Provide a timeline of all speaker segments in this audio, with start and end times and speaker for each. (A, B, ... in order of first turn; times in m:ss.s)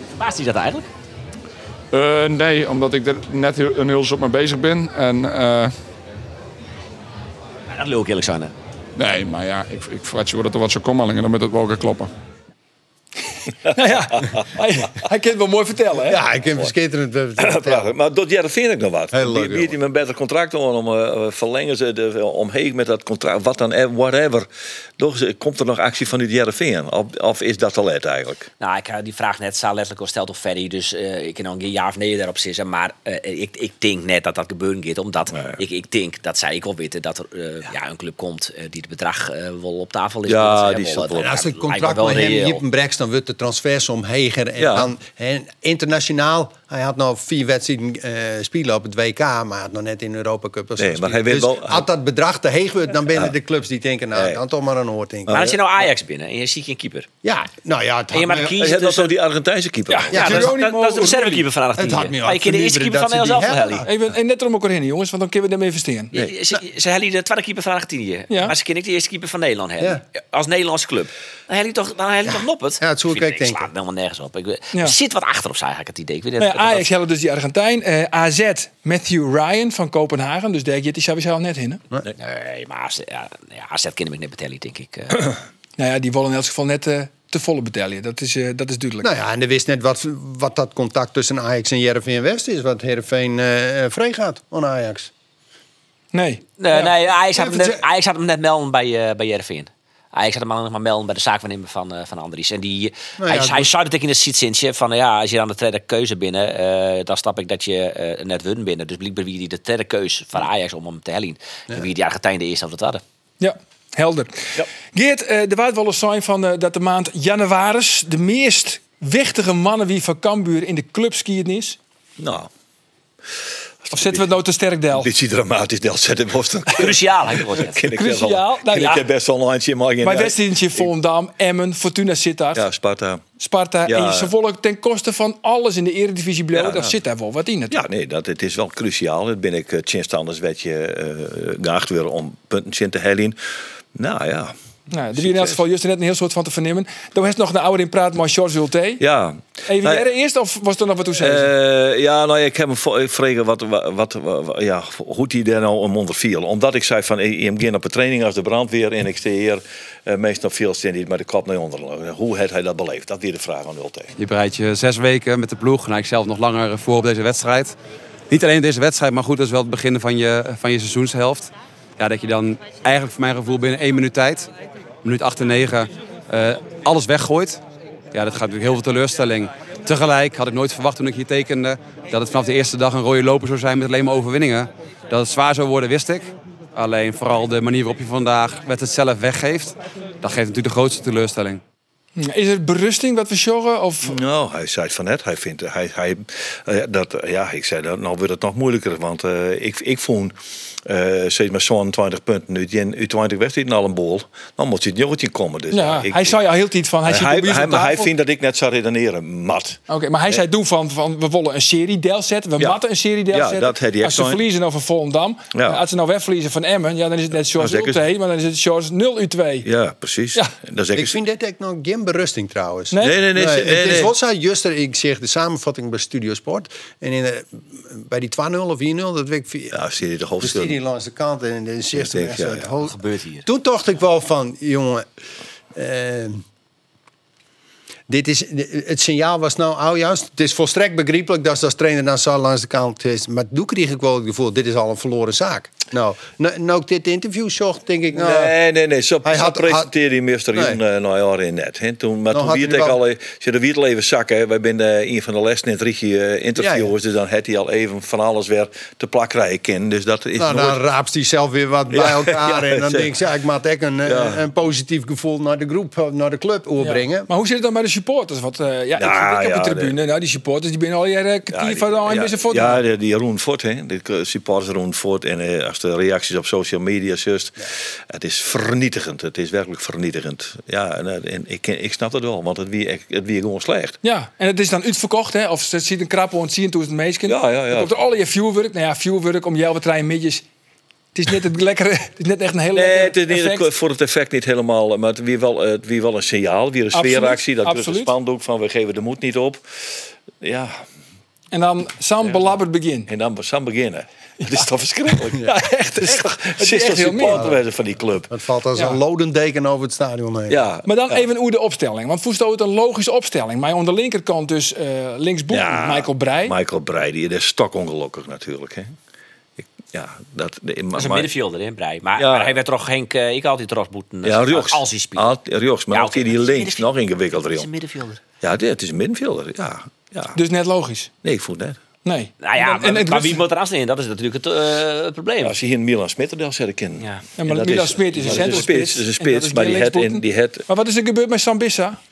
0:00.1-0:00.9 A
0:01.9-0:05.7 B
0:07.7-0:08.5 A
0:09.0-0:12.1 B
0:13.7-0:16.2 C
0:14.2-0:14.5 D
0:16.0-0:17.9 E
0:17.4-0:28.5 D
0:19.1-0:19.8 E
0:28.6-0:42.6 A
0:35.3-0:35.6 D
0:40.3-0:41.3 D
0:41.2-0:55.6 E
0:44.6-0:44.9 D
0:50.8-0:51.9 D
0:54.2-0:54.4 D
0:55.3-0:57.1 A
0:57.2-0:58.6 E
0:58.1-0:59.2 A
0:58.6-1:00.4 D
0:59.9-1:01.5 C
1:00.1-1:03.9 A
1:00.1-1:00.6 E
1:01.8-1:03.9 E
1:03.9-1:06.1 C
1:06.1-1:16.9 A
1:08.3-1:08.6 C
1:12.3-1:13.7 E
1:16.4-1:21.8 C
1:22.2-1:25.3 A
1:25.8-1:29.1 C
1:29.0-1:35.1 E
1:36.1-1:36.9 C
1:36.6-1:53.0 A
1:37.4-1:37.8 E
1:43.2-1:43.7 E
1:53.4-2:01.8 C
2:02.2-2:02.5 D
2:03.8-2:04.2 D
2:03.9-2:05.1 C
2:04.9-2:10.9 D
2:06.7-2:07.8 A
2:07.9-2:09.0 C
2:10.0-2:12.6 C
2:12.6-2:13.2 D
2:13.4-2:17.8 C
2:13.9-2:14.3 D
2:16.6-2:17.0 D
2:17.7-2:23.4 D
2:24.0-2:24.5 D
2:24.9-2:29.0 C
2:25.2-2:25.6 D
2:29.0-2:30.1 D
2:29.7-2:31.5 C
2:31.2-2:44.1 D
2:44.2-2:47.8 F
2:48.3-2:54.5 F
2:55.0-3:11.6 F
3:12.2-3:14.2 C
3:14.0-3:26.4 D
3:25.7-3:28.1 C
3:27.1-3:29.8 D
3:29.9-3:39.7 C
3:33.3-3:34.4 D
3:35.5-3:35.8 D
3:37.6-3:38.0 D
3:39.6-3:41.2 D
3:40.9-3:49.8 E
3:43.0-3:44.1 D
3:49.7-3:50.8 D
3:50.4-3:55.1 E
3:51.9-3:52.7 D
3:52.9-3:53.5 A
3:55.7-3:56.4 E
3:58.1-4:08.6 E
4:08.1-4:20.8 D
4:09.2-4:09.9 E
4:10.5-4:10.8 E
4:12.3-4:13.0 E
4:16.6-4:16.9 E
4:20.4-4:27.3 E
4:21.9-4:23.1 D
4:24.1-4:24.4 D
4:26.8-4:32.8 C
4:29.0-4:29.9 D
4:31.5-4:44.0 D
4:44.0-4:50.4 C
4:47.3-4:48.0 D
4:51.2-4:53.7 C
4:52.7-4:59.6 D
4:56.9-4:58.1 C
5:00.4-5:00.8 D
5:01.5-5:03.1 C
5:03.1-5:08.3 D
5:05.4-5:07.5 C
5:07.3-5:07.6 E
5:08.3-5:10.6 E
5:10.5-5:11.2 D
5:10.8-5:16.6 C
5:15.5-5:18.9 D
5:19.9-5:21.3 D
5:21.0-5:25.3 A
5:22.2-5:22.6 D
5:24.2-5:27.7 D
5:25.9-5:28.2 A
5:28.4-5:30.4 D
5:30.3-5:31.1 C
5:31.2-5:31.8 D
5:32.0-5:33.4 C
5:32.4-5:35.6 A
5:35.4-5:40.6 D
5:37.0-5:37.2 A
5:37.4-5:42.0 C
5:38.2-5:38.7 A